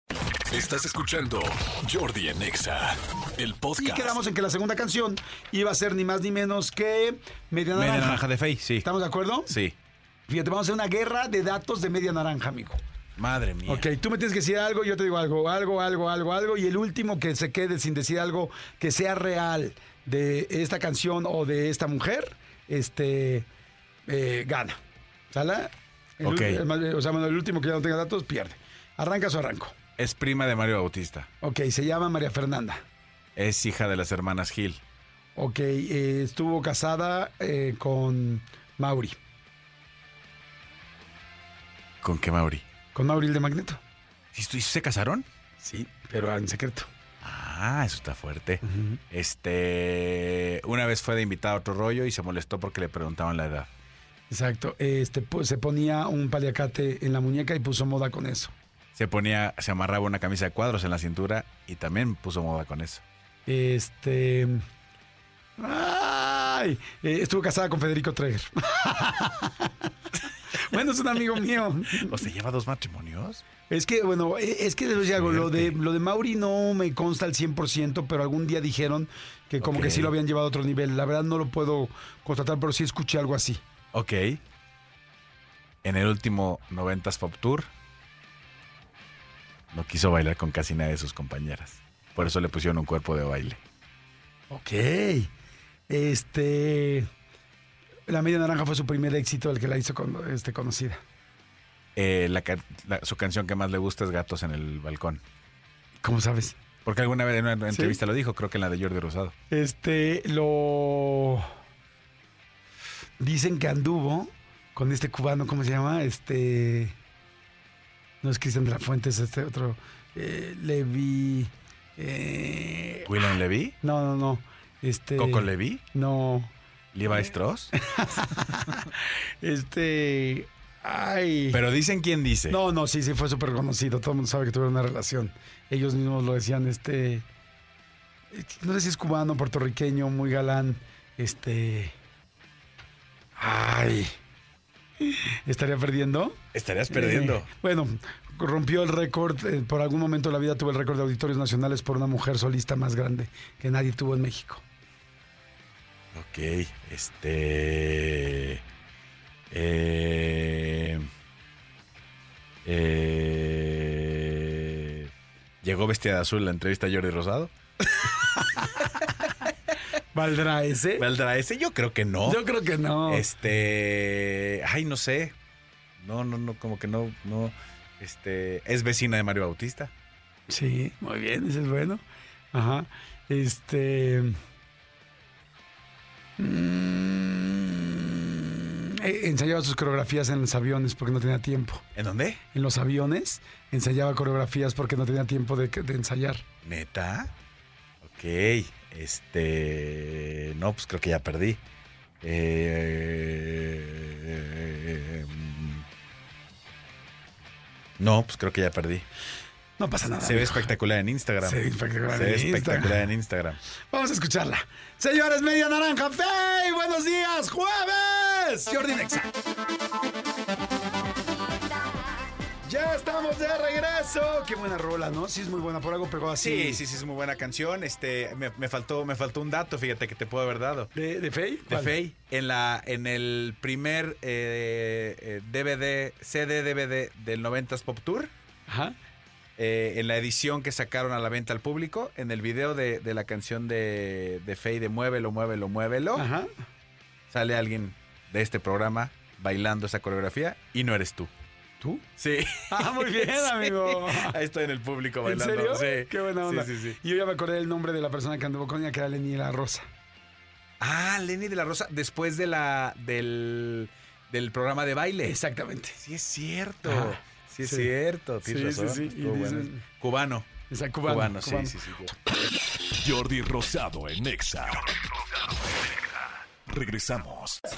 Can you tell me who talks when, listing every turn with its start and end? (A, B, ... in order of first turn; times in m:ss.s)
0:00.5-0:04.2 A
0:03.8-0:08.2 B
0:07.7-0:08.9 C
0:08.8-0:09.6 B
0:09.5-0:09.7 C
0:10.3-0:12.8 B
0:13.2-0:13.9 C
0:13.6-0:23.5 B
0:24.1-0:24.8 B
0:25.3-0:29.7 B
0:26.2-0:26.6 C
0:30.0-0:31.3 C
0:31.4-0:32.8 B
0:33.4-0:34.8 C
0:35.4-0:39.2 B
0:42.0-0:42.6 C
0:42.9-0:43.8 B
0:44.3-0:45.2 C
0:45.6-0:46.9 B
0:47.2-0:53.7 C
0:48.6-0:49.0 B
0:54.3-0:58.5 B
0:58.9-1:03.0 C
1:03.4-1:04.6 B
1:05.6-1:09.7 B
1:10.5-1:12.2 B
1:11.9-1:13.4 C
1:13.7-1:23.6 B
1:15.0-1:15.8 C
1:19.6-1:20.1 C
1:23.9-1:24.4 C
1:25.8-1:27.7 C
1:29.7-1:33.6 C
1:34.5-1:35.3 B
1:35.9-1:37.1 B
1:38.1-1:41.0 B
1:42.0-1:45.2 C
1:46.0-1:46.6 B
1:46.8-1:49.3 C
1:47.7-1:48.0 B
1:49.5-1:51.5 B
1:53.2-1:57.0 B
1:58.2-2:03.1 B
2:03.0-2:03.8 C
2:03.8-2:06.5 B
2:05.2-2:05.8 C
2:06.9-2:07.7 C
2:07.7-2:11.6 B
2:11.5-2:12.6 C
2:12.5-2:17.2 B
2:18.3-2:21.9 B
2:23.4-2:24.1 B
2:25.0-2:26.4 B
2:26.5-2:27.5 C
2:26.9-2:34.6 B
2:36.1-2:38.6 C
2:39.5-2:41.0 C
2:42.6-2:45.1 C
2:45.6-2:47.5 C
2:50.1-2:51.0 B
2:51.0-2:55.3 C
2:52.2-2:53.3 B
2:56.0-2:59.9 C
3:00.5-3:04.4 B
3:06.4-3:11.8 B
3:11.9-3:12.4 C
3:12.5-3:16.4 B
3:16.6-3:17.3 C
3:18.0-3:21.6 C
3:22.2-3:25.8 C
3:28.0-3:29.0 C
3:29.8-3:30.7 B
3:30.2-3:33.6 C
3:31.4-3:33.1 B
3:33.9-3:39.3 B
3:42.6-3:46.8 B
3:46.4-3:50.9 C
3:50.9-3:52.0 B
3:51.7-3:58.3 C
3:58.7-3:59.0 B
3:59.6-4:06.2 C
4:06.1-4:06.5 B
4:07.3-4:11.3 C
4:11.8-4:12.1 B
4:12.2-4:17.0 C
4:12.7-4:14.4 B
4:15.2-4:19.9 B
4:20.8-4:25.4 C
4:25.2-4:26.0 B
4:26.0-4:30.5 C
4:26.8-4:27.9 B
4:28.4-4:29.8 B
4:30.7-4:31.8 B
4:31.0-4:32.2 C
4:33.0-4:34.9 A
4:36.7-4:37.6 A